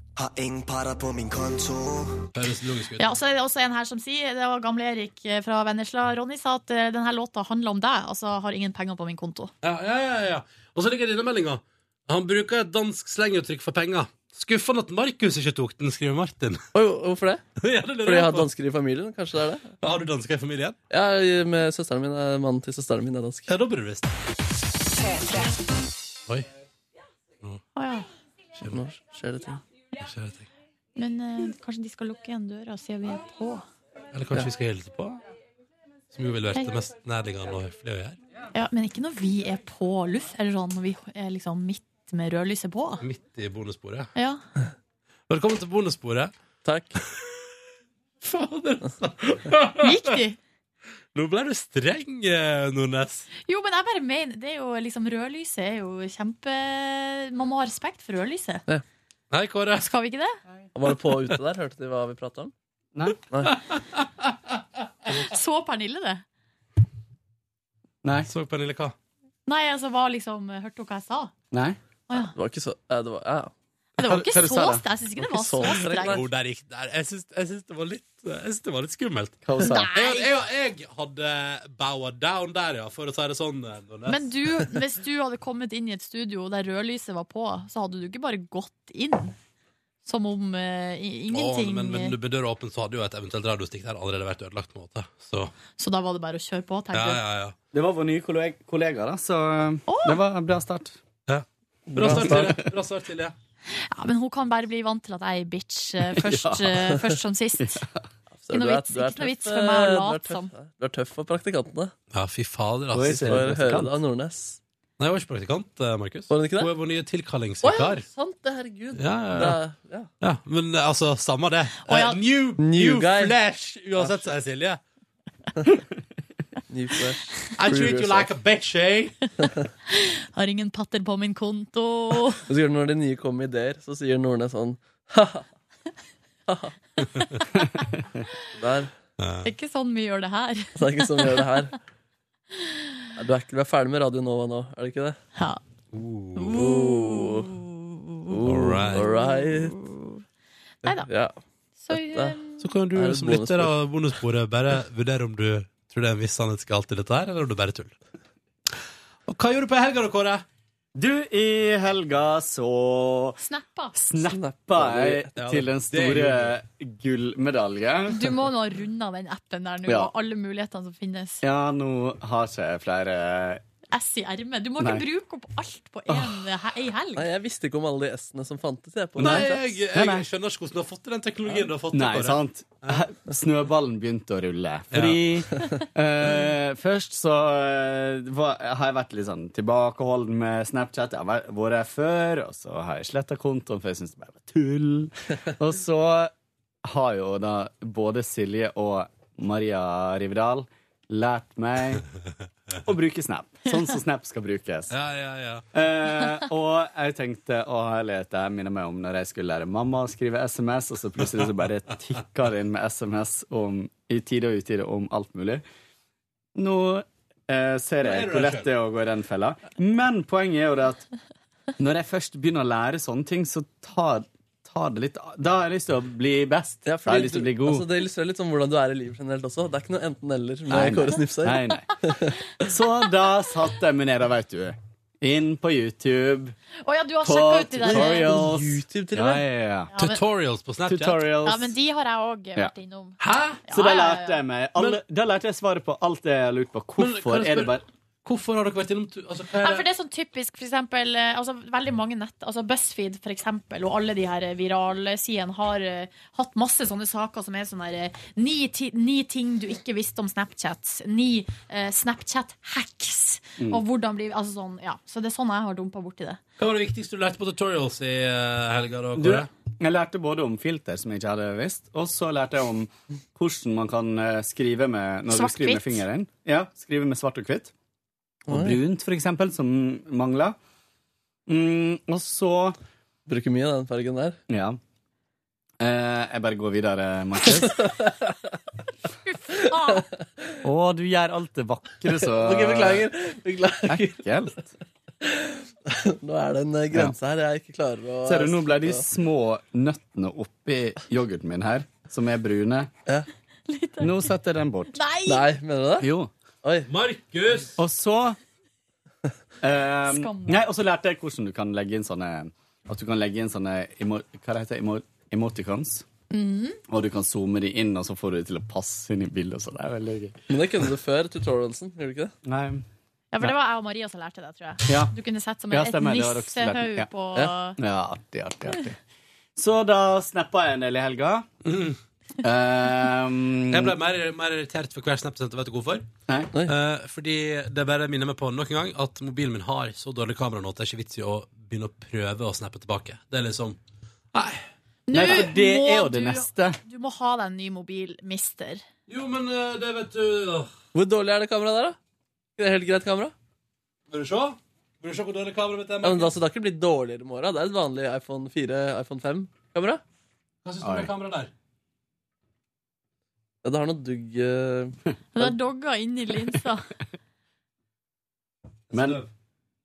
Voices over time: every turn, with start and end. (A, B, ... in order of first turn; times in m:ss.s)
0:00.2-0:02.4 A
0:02.3-0:03.1 B
0:03.0-0:09.5 C
0:09.6-0:16.7 B
0:16.7-0:17.4 D
0:17.6-0:18.5 B
0:18.0-0:19.7 D
0:19.8-0:20.8 B
0:20.9-0:23.5 D
0:23.5-0:24.1 B
0:27.8-0:28.1 C
0:28.7-0:29.6 D
0:30.0-0:30.5 B
0:31.0-0:33.6 C
0:34.1-0:35.2 B
0:36.1-0:38.2 B
0:38.5-0:43.0 C
0:43.0-0:44.1 B
0:44.2-0:44.4 C
0:45.3-0:46.3 B
0:46.6-0:47.0 D
0:47.1-0:47.4 B
0:48.2-0:50.2 B
0:49.8-0:50.4 C
0:51.1-0:53.3 B
0:53.5-0:58.7 C
0:59.3-0:59.9 B
0:59.8-1:00.4 C
1:00.7-1:02.5 D
1:03.0-1:03.2 E
1:03.3-1:03.6 D
1:03.5-1:04.0 B
1:05.1-1:06.2 C
1:08.0-1:08.3 E
1:08.3-1:09.0 B
1:09.5-1:11.3 C
1:11.5-1:11.8 E
1:12.1-1:12.3 C
1:12.4-1:13.5 D
1:14.0-1:16.2 C
1:14.0-1:14.8 E
1:15.2-1:16.3 D
1:15.6-1:24.7 B
1:19.4-1:19.9 E
1:19.6-1:20.3 C
1:24.1-1:29.4 C
1:30.0-1:32.2 C
1:31.3-1:35.5 B
1:35.8-1:37.2 C
1:36.9-1:37.6 B
1:37.7-1:41.0 E
1:39.9-1:40.2 C
1:41.3-1:43.4 B
1:41.9-1:42.7 E
1:43.7-1:47.8 C
1:46.2-1:46.8 E
1:47.6-1:48.0 E
1:48.4-1:51.9 D
1:48.5-1:50.5 C
1:52.1-1:53.4 B
1:52.9-1:54.0 E
1:53.0-1:54.6 D
1:55.0-1:58.1 B
1:56.3-1:56.7 D
1:57.6-2:00.1 D
1:58.9-1:59.6 B
2:00.2-2:04.8 B
2:01.9-2:02.2 C
2:02.6-2:03.4 D
2:04.0-2:04.3 D
2:06.7-2:08.3 D
2:07.6-2:09.2 B
2:09.9-2:12.4 C
2:12.5-2:15.5 D
2:16.5-2:16.7 D
2:18.6-2:18.9 D
2:19.2-2:19.5 B
2:19.4-2:21.5 C
2:20.8-2:21.8 D
2:23.2-2:25.2 D
2:25.4-2:25.6 C
2:25.9-2:26.6 B
2:26.4-2:28.3 C
2:26.5-2:27.5 D
2:28.3-2:29.8 D
2:28.4-2:29.1 B
2:29.1-2:30.2 C
2:30.8-2:31.4 D
2:31.8-2:32.7 C
2:31.9-2:32.4 D
2:32.6-2:38.0 B
2:32.9-2:33.8 D
2:39.3-2:40.4 B
2:41.0-2:43.4 E
2:43.4-2:44.0 C
2:44.0-2:48.3 E
2:44.2-2:45.3 D
2:45.4-2:46.6 B
2:48.1-2:51.4 C
2:51.4-2:53.6 E
2:53.9-2:57.3 C
2:54.8-2:55.0 E
2:57.2-2:59.8 D
2:59.2-3:00.2 E
2:59.2-3:03.0 B
3:01.9-3:16.3 E
3:04.9-3:05.4 B
3:16.8-3:22.0 E
3:22.8-3:24.9 E
3:24.9-3:25.7 B
3:25.7-3:35.6 E
3:36.6-3:41.1 E
3:38.0-3:38.7 B
3:41.8-3:47.9 E
3:46.8-3:52.6 D
3:50.7-3:51.9 E
3:52.6-3:56.6 E
3:56.8-3:58.4 C
3:57.2-3:59.9 E
3:57.9-3:59.4 D
3:59.9-4:00.2 C
4:00.0-4:01.2 B
4:00.9-4:01.7 E
4:01.4-4:04.4 C
4:03.2-4:03.6 B
4:03.7-4:07.8 E
4:07.0-4:09.9 B
4:09.6-4:26.4 C
4:26.6-4:29.5 B
4:29.2-4:37.7 E
4:35.3-4:36.0 C
4:38.5-4:38.8 D
4:38.5-4:40.6 E
4:41.5-4:42.8 E
4:43.3-4:44.4 D
4:44.5-4:44.8 E
4:45.8-4:47.9 E
4:47.7-4:48.1 D
4:49.3-4:50.1 C
4:50.0-4:50.6 D
4:50.6-4:53.1 E
4:52.3-4:54.2 D
4:53.9-4:54.7 E
4:55.2-4:59.0 D
4:58.2-5:02.9 E
5:03.7-5:04.3 C
5:04.0-5:05.0 E
5:04.9-5:05.4 C
5:05.2-5:06.1 D
5:06.0-5:06.3 E
5:06.6-5:06.9 D
5:06.9-5:07.8 B
5:07.8-5:08.4 E
5:09.6-5:16.1 E
5:10.0-5:10.6 C
5:16.3-5:16.8 C
5:16.9-5:20.4 E
5:20.5-5:22.3 D
5:22.4-5:22.8 E
5:23.3-5:27.8 C
5:24.9-5:25.1 E
5:25.7-5:27.1 E
5:27.8-5:29.0 E
5:29.6-5:31.5 E
5:31.6-5:32.0 B
5:32.4-5:34.0 E
5:33.7-5:36.1 B
5:36.6-5:43.8 B
5:44.3-5:44.7 B
5:45.1-5:48.8 C
5:45.1-5:46.8 E
5:49.1-5:50.7 B
5:50.9-5:52.0 D
5:52.6-5:53.3 D
5:54.1-5:56.3 B
5:56.0-6:00.0 D
6:00.6-6:01.5 B
6:00.8-6:01.1 E
6:03.6-6:05.0 D
6:05.4-6:06.9 C
6:08.9-6:09.3 B
6:08.9-6:09.2 E